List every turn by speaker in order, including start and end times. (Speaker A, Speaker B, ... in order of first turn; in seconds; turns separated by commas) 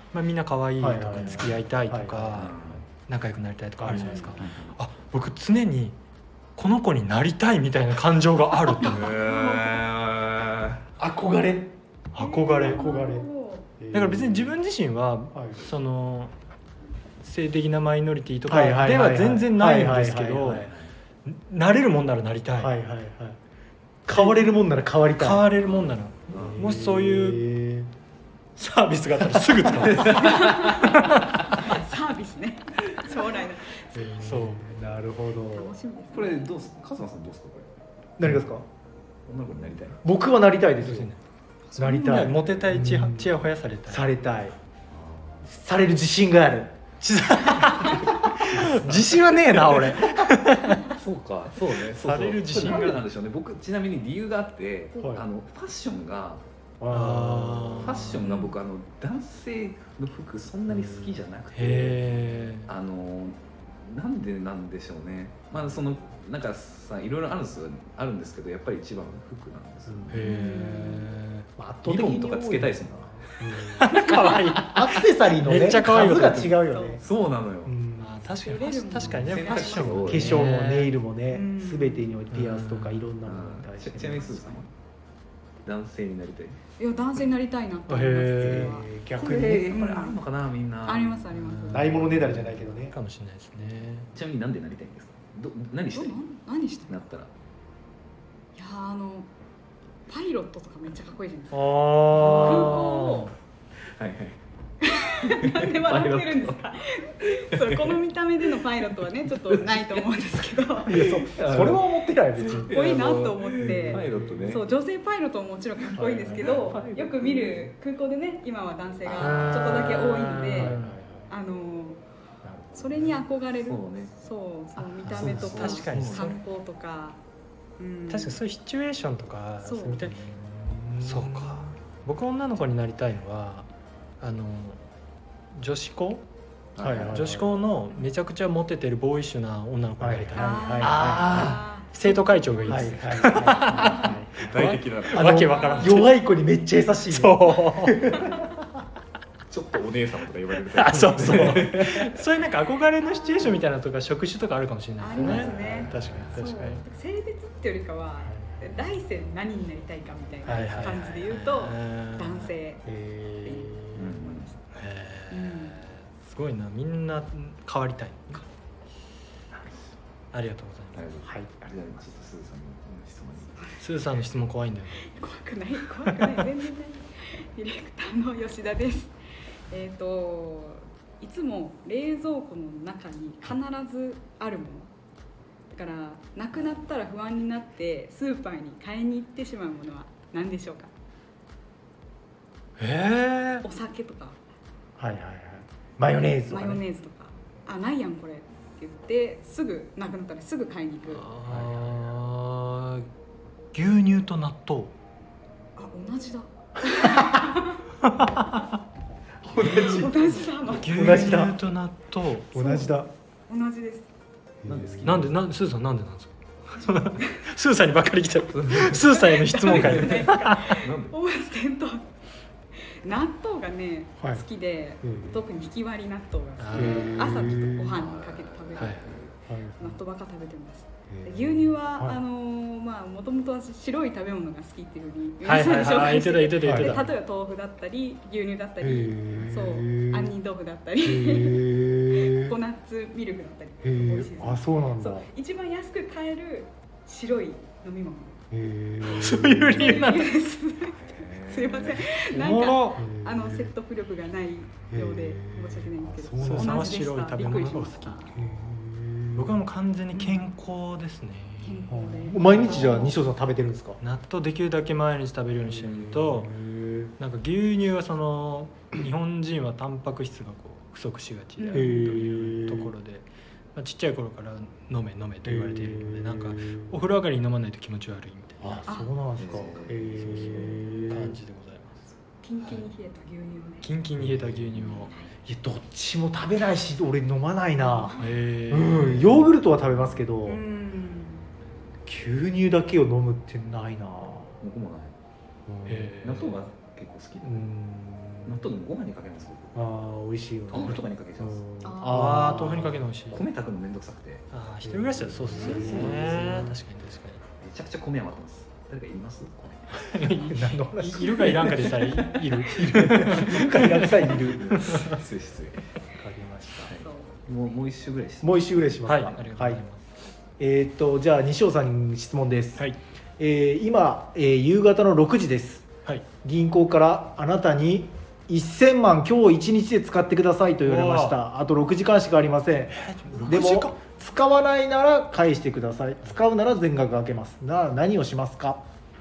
Speaker A: 0.1-6.0, Speaker B: 0.8-2.4, Speaker C: 2.3-2.9, Speaker B: 3.8-4.4, Speaker C: 3.9-4.8, Speaker D: 3.9-4.3, Speaker A: 6.6-9.2, Speaker C: 8.8-10.8, Speaker D: 9.0-9.8, Speaker B: 11.0-11.7, Speaker A: 12.1-12.9, Speaker D: 12.1-13.7, Speaker B: 12.6-13.3, Speaker B: 13.8-14.6, Speaker A: 13.9-16.3, Speaker B: 15.3-15.6, Speaker A: 17.2-20.7, Speaker B: 18.5-20.7, Speaker C: 20.5-20.9, Speaker A: 21.2-22.7, Speaker B: 22.6-23.4, Speaker B: 24.1-25.5, Speaker A: 24.1-24.5, Speaker A: 25.2-27.4, Speaker B: 26.3-27.9, Speaker C: 26.3-26.7, Speaker A: 28.6-31.6, Speaker C: 29.7-30.5, Speaker D: 30.0-34.2, Speaker B: 33.9-35.7, Speaker A: 34.2-34.7, Speaker D: 35.5-36.6, Speaker C: 36.1-37.7, Speaker B: 38.2-38.6, Speaker C: 39.2-40.0, Speaker B: 40.0-41.1, Speaker A: 40.8-41.2, Speaker D: 41.6-42.5, Speaker B: 41.8-44.5, Speaker A: 42.0-44.0, Speaker C: 44.9-45.5, Speaker B: 45.4-46.7, Speaker A: 47.0-50.9, Speaker C: 48.5-50.1, Speaker C: 50.9-56.4, Speaker A: 51.9-53.0, Speaker B: 52.0-52.7, Speaker B: 55.0-55.2, Speaker B: 56.8-58.0, Speaker A: 56.9-58.2, Speaker C: 57.8-70.2, Speaker D: 58.2-58.5, Speaker B: 60.7-61.9, Speaker A: 61.5-62.7, Speaker B: 69.9-70.2, Speaker A: 70.1-71.5, Speaker D: 70.2-71.2, Speaker B: 71.6-73.9, Speaker C: 71.8-73.3, Speaker A: 73.7-76.6, Speaker D: 73.9-74.6, Speaker C: 74.2-74.9, Speaker B: 74.6-77.0, Speaker C: 75.9-76.4, Speaker D: 76.5-77.0, Speaker C: 77.0-77.8, Speaker B: 77.6-78.3, Speaker A: 78.0-80.9, Speaker D: 78.4-80.2, Speaker C: 79.1-80.5, Speaker B: 80.1-84.3, Speaker D: 81.3-82.2, Speaker A: 82.3-83.1, Speaker C: 83.2-84.7, Speaker D: 84.1-84.7, Speaker C: 85.6-86.6, Speaker D: 86.8-88.9, Speaker A: 87.9-88.8, Speaker B: 88.4-89.7, Speaker C: 89.2-91.2, Speaker D: 89.7-90.2, Speaker D: 90.8-91.9, Speaker A: 91.3-94.1, Speaker B: 91.7-92.9, Speaker C: 94.1-96.2, Speaker D: 95.9-97.1, Speaker C: 96.9-97.3, Speaker D: 98.5-99.3, Speaker D: 100.1-103.3, Speaker A: 101.5-103.3, Speaker C: 102.1-102.8, Speaker C: 103.9-104.4, Speaker D: 104.8-111.3, Speaker C: 105.3-106.6, Speaker C: 107.3-108.0, Speaker C: 108.8-110.1, Speaker C: 110.8-114.7, Speaker B: 110.9-112.8, Speaker D: 112.4-122.0, Speaker B: 113.6-114.7, Speaker C: 115.8-117.7, Speaker B: 115.9-116.5, Speaker C: 119.0-119.8, Speaker A: 119.2-120.9, Speaker B: 120.6-121.3, Speaker B: 122.4-123.2, Speaker D: 122.7-127.2, Speaker C: 123.6-124.1, Speaker C: 124.8-126.3, Speaker A: 125.0-126.4, Speaker D: 127.8-128.4, Speaker A: 128.1-130.2, Speaker D: 129.6-130.0, Speaker B: 130.0-131.7, Speaker A: 131.0-133.7, Speaker A: 134.2-134.8, Speaker A: 135.5-136.2, Speaker C: 136.8-137.2, Speaker B: 136.8-137.6, Speaker A: 136.9-146.1, Speaker B: 140.0-141.6, Speaker D: 140.3-144.2, Speaker C: 141.1-141.6, Speaker B: 142.7-148.5, Speaker C: 143.7-145.4, Speaker D: 145.4-146.1, Speaker A: 147.1-148.1, Speaker C: 149.5-152.2, Speaker A: 150.7-156.8, Speaker B: 151.4-151.8, Speaker D: 153.0-153.7, Speaker D: 155.0-162.9, Speaker C: 155.2-156.3, Speaker B: 155.2-155.8, Speaker B: 158.2-158.9, Speaker B: 160.4-160.8, Speaker A: 160.4-162.5, Speaker B: 162.8-164.1, Speaker D: 163.4-164.6, Speaker C: 163.9-164.5, Speaker A: 164.7-168.4, Speaker D: 165.3-165.8, Speaker A: 170.3-171.1, Speaker C: 170.9-174.0, Speaker B: 171.2-171.5, Speaker A: 173.8-175.2, Speaker D: 174.9-179.2, Speaker D: 179.7-184.9, Speaker D: 185.7-190.9, Speaker A: 192.8-193.6, Speaker D: 193.6-194.4, Speaker B: 195.0-196.8, Speaker D: 196.5-201.3, Speaker A: 201.1-203.1, Speaker C: 201.4-202.1, Speaker A: 203.7-204.9, Speaker D: 205.8-207.8, Speaker A: 208.0-208.7, Speaker B: 209.4-210.2, Speaker C: 209.4-210.5, Speaker D: 209.6-211.4, Speaker A: 210.7-212.6, Speaker B: 210.9-211.6, Speaker D: 212.5-214.1, Speaker B: 212.5-213.1, Speaker B: 214.6-215.2, Speaker C: 214.6-215.4, Speaker A: 215.0-220.7, Speaker C: 218.5-219.0, Speaker D: 219.1-222.1, Speaker C: 219.5-221.2, Speaker D: 222.9-248.4, Speaker B: 224.2-224.4, Speaker B: 225.0-225.4, Speaker A: 226.6-227.4, Speaker B: 226.7-228.0, Speaker C: 227.0-229.3, Speaker A: 228.8-229.1, Speaker B: 229.5-230.0, Speaker B: 231.1-232.2, Speaker A: 235.4-237.1, Speaker B: 236.6-237.0, Speaker B: 238.8-240.3, Speaker B: 241.0-242.5, Speaker B: 243.8-245.3, Speaker B: 248.5-249.9, Speaker A: 249.1-250.3, Speaker D: 249.8-258.3, Speaker C: 250.8-252.1, Speaker A: 252.2-253.0, Speaker B: 253.0-253.7, Speaker B: 254.9-257.0, Speaker A: 256.4-258.4, Speaker B: 258.3-259.7, Speaker A: 259.4-261.9, Speaker D: 261.6-263.1, Speaker B: 261.9-264.0, Speaker A: 262.5-263.1, Speaker A: 264.0-266.5, Speaker B: 265.9-267.1, Speaker A: 267.2-278.8, Speaker D: 271.6-271.9, Speaker B: 271.7-272.9, Speaker B: 275.4-276.9, Speaker B: 278.6-281.4, Speaker D: 278.8-279.1, Speaker C: 279.4-280.5, Speaker A: 279.8-281.9, Speaker D: 280.5-281.2, Speaker D: 282.1-284.0, Speaker A: 283.8-285.1, Speaker B: 284.2-284.9, Speaker D: 284.8-285.3, Speaker B: 285.4-288.1, Speaker D: 287.8-288.4, Speaker A: 288.2-289.4, Speaker B: 288.7-290.6, Speaker D: 289.0-289.3, Speaker D: 290.4-291.5, Speaker B: 292.1-294.6, Speaker C: 294.6-295.1, Speaker B: 295.7-296.1, Speaker A: 295.9-296.5, Speaker C: 296.2-297.7, Speaker A: 297.4-298.4, Speaker C: 298.4-299.8, Speaker B: 299.7-303.1, Speaker C: 300.7-301.7, Speaker A: 300.7-301.0, Speaker D: 301.8-302.3, Speaker A: 302.1-303.4, Speaker C: 302.5-304.4, Speaker A: 304.5-307.4, Speaker B: 304.8-306.8, Speaker C: 305.5-306.7, Speaker D: 305.6-305.9, Speaker C: 307.6-310.0, Speaker A: 309.9-314.2, Speaker B: 310.5-312.0, Speaker C: 311.3-312.4, Speaker D: 312.1-312.4, Speaker B: 312.8-315.2, Speaker C: 313.0-315.9, Speaker A: 314.8-315.1, Speaker B: 316.1-316.9, Speaker C: 316.9-318.9, Speaker D: 316.9-317.8, Speaker B: 318.4-319.8, Speaker A: 319.0-320.0, Speaker B: 320.6-322.9, Speaker B: 323.4-325.9, Speaker B: 326.4-338.8, Speaker A: 330.8-331.4, Speaker A: 332.9-334.0